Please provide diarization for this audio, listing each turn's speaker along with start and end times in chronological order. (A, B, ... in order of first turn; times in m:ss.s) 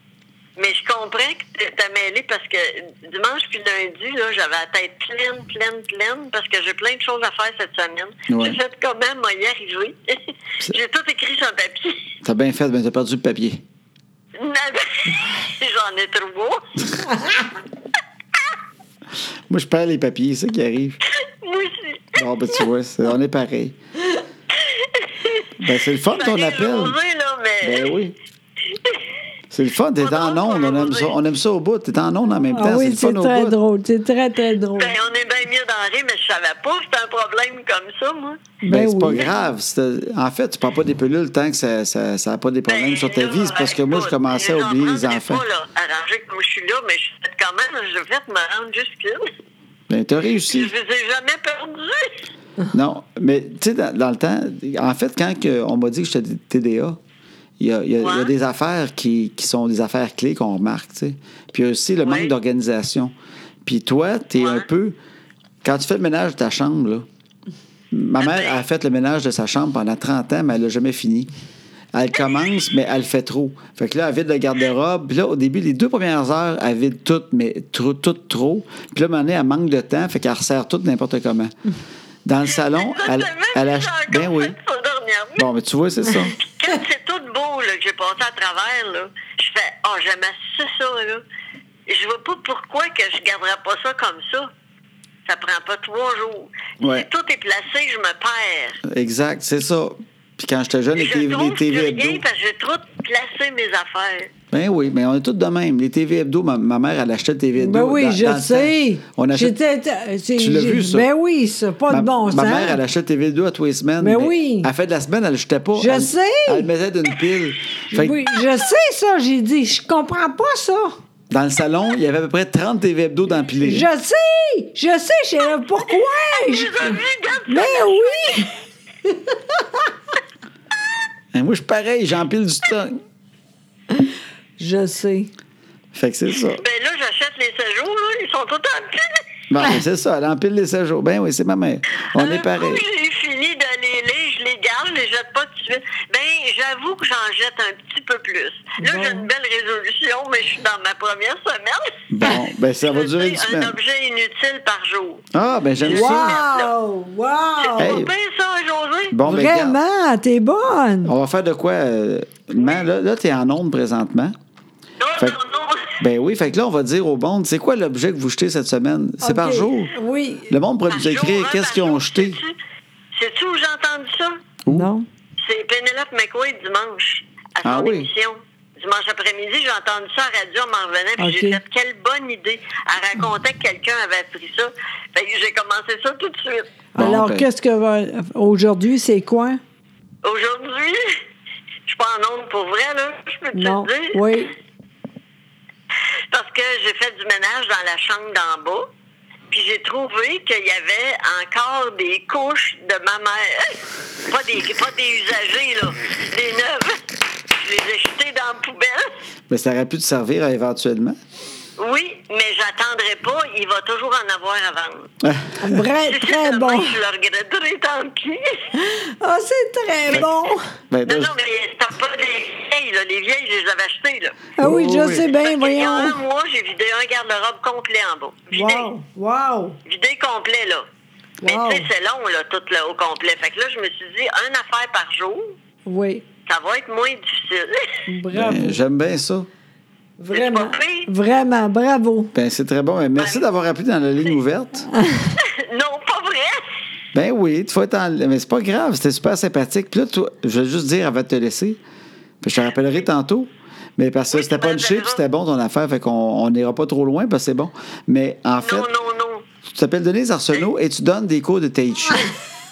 0:00.6-0:12.1 A
0:08.3-0:08.6 B
0:12.2-0:13.6 B
0:14.4-0:17.2 A
0:19.5-0:21.0 B
0:21.2-0:22.6 A
0:22.2-0:23.8 B
0:24.5-0:27.9 A
0:25.6-0:27.0 B
0:27.6-0:28.2 B
0:28.7-0:29.0 A
0:29.5-0:33.6 B
0:30.0-0:31.1 A
0:32.5-0:35.0 C
0:34.8-0:38.4 A
0:38.6-0:39.2 C
0:38.7-0:45.4 B
0:39.1-0:39.4 A
0:42.7-0:49.3 A
0:49.9-0:50.7 B
0:50.5-0:52.2 A
0:52.7-0:57.0 B
0:57.6-1:03.1 B
0:58.0-0:58.3 A
1:02.0-1:02.3 A
1:03.6-1:05.0 B
1:04.4-1:04.6 A
1:05.6-1:07.0 B
1:07.9-1:11.3 B
1:08.2-1:08.6 A
1:11.9-1:21.6 B
1:22.2-1:24.6 B
1:22.7-1:25.5 A
1:25.4-1:26.4 B
1:26.4-1:31.2 A
1:31.9-1:34.5 A
1:35.2-1:38.8 A
1:36.8-1:37.1 B
1:38.8-1:42.2 B
1:41.0-1:44.3 A
1:44.5-1:49.6 B
1:47.6-1:52.8 C
1:50.4-1:51.1 B
1:51.9-1:58.2 B
1:54.0-1:54.7 C
1:55.8-1:56.7 C
1:57.9-2:01.0 C
2:01.3-2:03.9 B
2:03.6-2:09.9 C
2:06.3-2:08.3 A
2:11.3-2:13.0 B
2:14.0-2:15.3 C
2:15.9-2:16.6 B
2:16.6-2:19.2 A
2:19.5-2:22.8 B
2:22.1-2:35.2 A
2:28.8-2:29.3 C
2:32.1-2:33.8 B
2:35.3-2:36.4 B
2:35.8-2:36.7 A
2:35.8-2:38.0 C
2:37.6-2:39.2 A
2:37.8-2:38.1 B
2:39.1-2:39.8 B
2:39.2-2:41.1 C
2:41.0-2:44.3 B
2:42.6-2:42.8 A
2:45.0-2:46.0 A
2:46.0-2:49.9 B
2:49.2-2:50.6 C
2:50.5-2:52.4 B
2:50.9-2:52.6 A
2:53.2-2:54.4 A
2:54.6-2:54.9 B
2:54.7-2:55.1 C
2:55.4-3:06.7 A
2:57.6-2:58.1 B
3:01.2-3:01.6 C
3:06.9-3:09.6 C
3:07.0-3:07.5 B
3:10.2-3:11.2 A
3:11.9-3:14.2 A
3:13.5-3:14.5 C
3:16.3-3:18.9 A
3:19.5-3:29.2 A
3:29.5-3:31.2 B
3:31.8-3:35.1 A
3:35.2-3:35.8 B
3:35.6-3:37.0 C
3:36.0-3:38.6 A
3:38.7-3:40.6 C
3:40.9-3:41.3 B
3:41.0-3:44.4 A
3:44.6-3:46.2 C
3:44.6-3:45.3 B
3:45.3-3:48.9 A
3:48.5-3:49.8 C
3:49.8-3:50.9 A
3:51.4-3:51.9 C
3:51.4-3:55.6 A
3:55.8-3:56.2 C
3:56.5-3:58.0 A
3:58.1-3:58.8 C
3:58.3-3:59.5 B
4:00.2-4:02.3 C
4:00.3-4:01.1 A
4:02.3-4:04.9 B
4:03.2-4:03.4 A
4:04.9-4:05.3 C
4:05.4-4:06.7 A
4:07.1-4:11.8 B
4:12.4-4:18.9 B
4:14.3-4:15.2 A
4:18.6-4:19.4 A
4:19.6-4:22.3 B